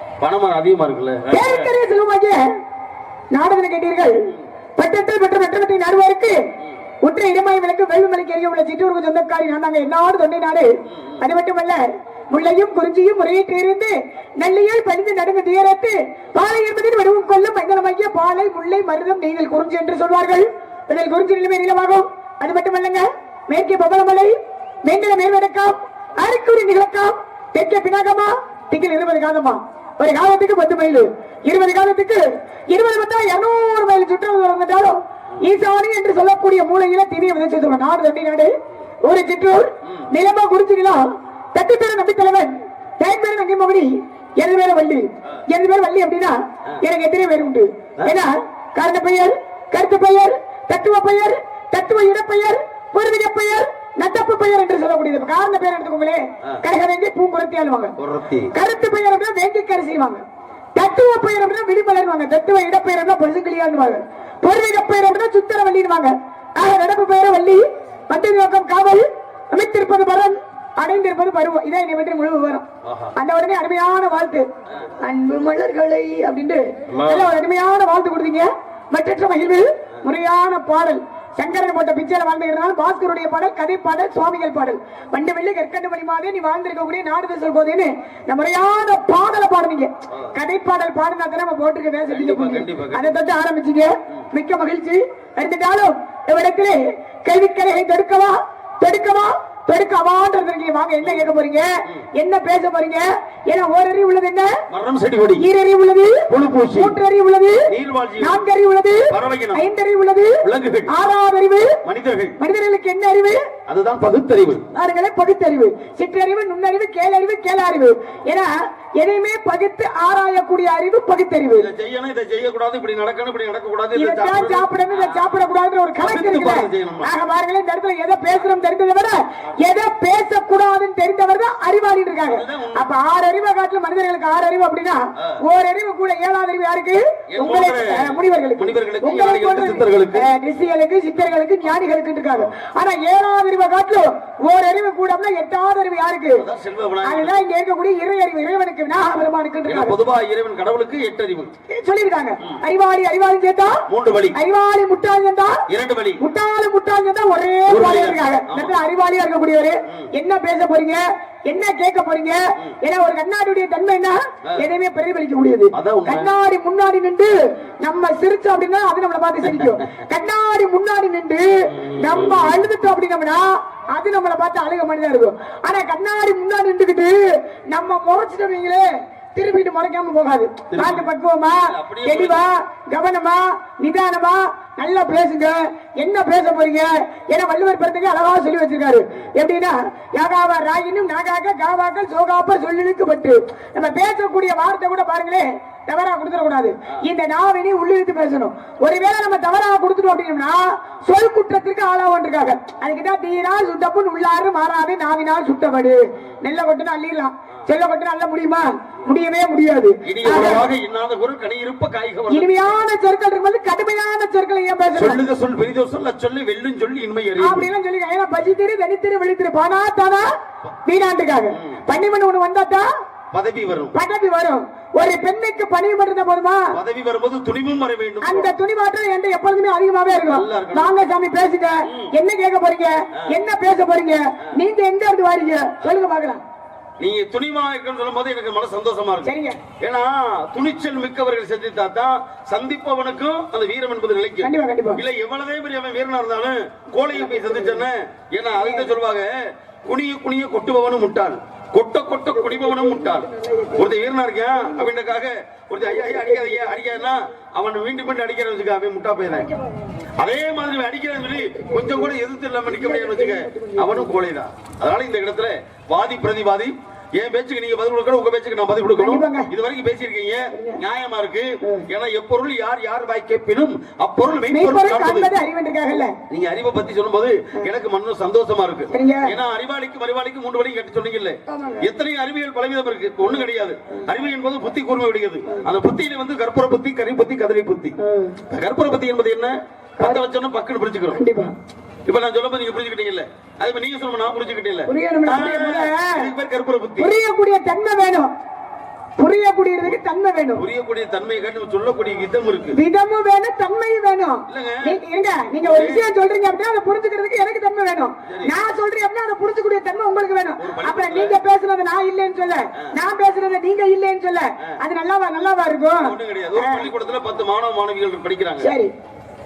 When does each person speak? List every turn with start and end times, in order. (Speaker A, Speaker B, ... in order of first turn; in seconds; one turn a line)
Speaker A: 0.2-1.7
Speaker B: 1.3-2.4
Speaker B: 3.3-6.4
Speaker B: 7.0-38.5
Speaker A: 10.9-11.2
Speaker B: 39.0-57.9
Speaker A: 39.8-40.1
Speaker A: 58.0-58.5
Speaker B: 58.5-60.2
Speaker B: 60.8-74.5
Speaker A: 72.8-73.1
Speaker B: 75.0-104.5
Speaker A: 76.9-77.3
Speaker A: 92.1-93.2
Speaker A: 104.7-105.5
Speaker B: 105.4-111.8
Speaker A: 106.3-107.0
Speaker A: 107.7-108.4
Speaker A: 109.1-109.7
Speaker A: 110.4-110.9
Speaker A: 111.8-112.3
Speaker B: 112.4-113.4
Speaker A: 113.7-114.6
Speaker B: 114.7-121.7
Speaker A: 121.5-127.1
Speaker B: 123.9-146.4
Speaker A: 132.3-132.9
Speaker A: 137.3-140.3
Speaker A: 146.4-147.4
Speaker B: 147.0-149.9
Speaker A: 149.7-151.5
Speaker B: 151.7-155.6
Speaker A: 153.9-154.3
Speaker A: 155.7-156.2
Speaker B: 156.2-178.8
Speaker A: 157.7-158.8
Speaker A: 165.7-166.3
Speaker A: 169.4-169.9
Speaker A: 171.7-172.6
Speaker B: 179.3-210.7
Speaker A: 180.7-182.4
Speaker A: 210.0-212.6
Speaker B: 212.3-215.2
Speaker A: 214.9-217.7
Speaker B: 217.4-220.3
Speaker B: 220.8-222.9
Speaker A: 221.5-221.8
Speaker A: 223.3-223.9
Speaker B: 223.9-226.7
Speaker A: 226.7-228.5
Speaker B: 228.2-236.4
Speaker A: 230.3-230.9
Speaker A: 237.0-259.5
Speaker B: 239.2-239.6
Speaker B: 244.4-245.0
Speaker B: 247.1-247.8
Speaker B: 248.5-248.9
Speaker B: 252.3-253.9
Speaker B: 254.6-254.9
Speaker B: 255.8-256.9
Speaker B: 259.3-259.7
Speaker A: 260.2-275.3
Speaker B: 261.6-262.1
Speaker B: 262.7-264.1
Speaker B: 269.0-269.5
Speaker B: 270.5-270.8
Speaker B: 274.5-276.1
Speaker A: 276.3-287.9
Speaker B: 278.9-279.3
Speaker B: 281.5-281.9
Speaker B: 288.0-288.4
Speaker A: 288.5-291.2
Speaker B: 291.1-291.5
Speaker A: 292.1-297.1
Speaker B: 294.9-296.3
Speaker B: 297.0-298.3
Speaker B: 299.2-300.6
Speaker A: 300.6-302.8
Speaker B: 302.7-316.9
Speaker A: 304.5-304.9
Speaker A: 305.6-306.1
Speaker A: 308.2-308.5
Speaker A: 310.6-311.4
Speaker A: 315.9-318.7
Speaker B: 318.6-318.9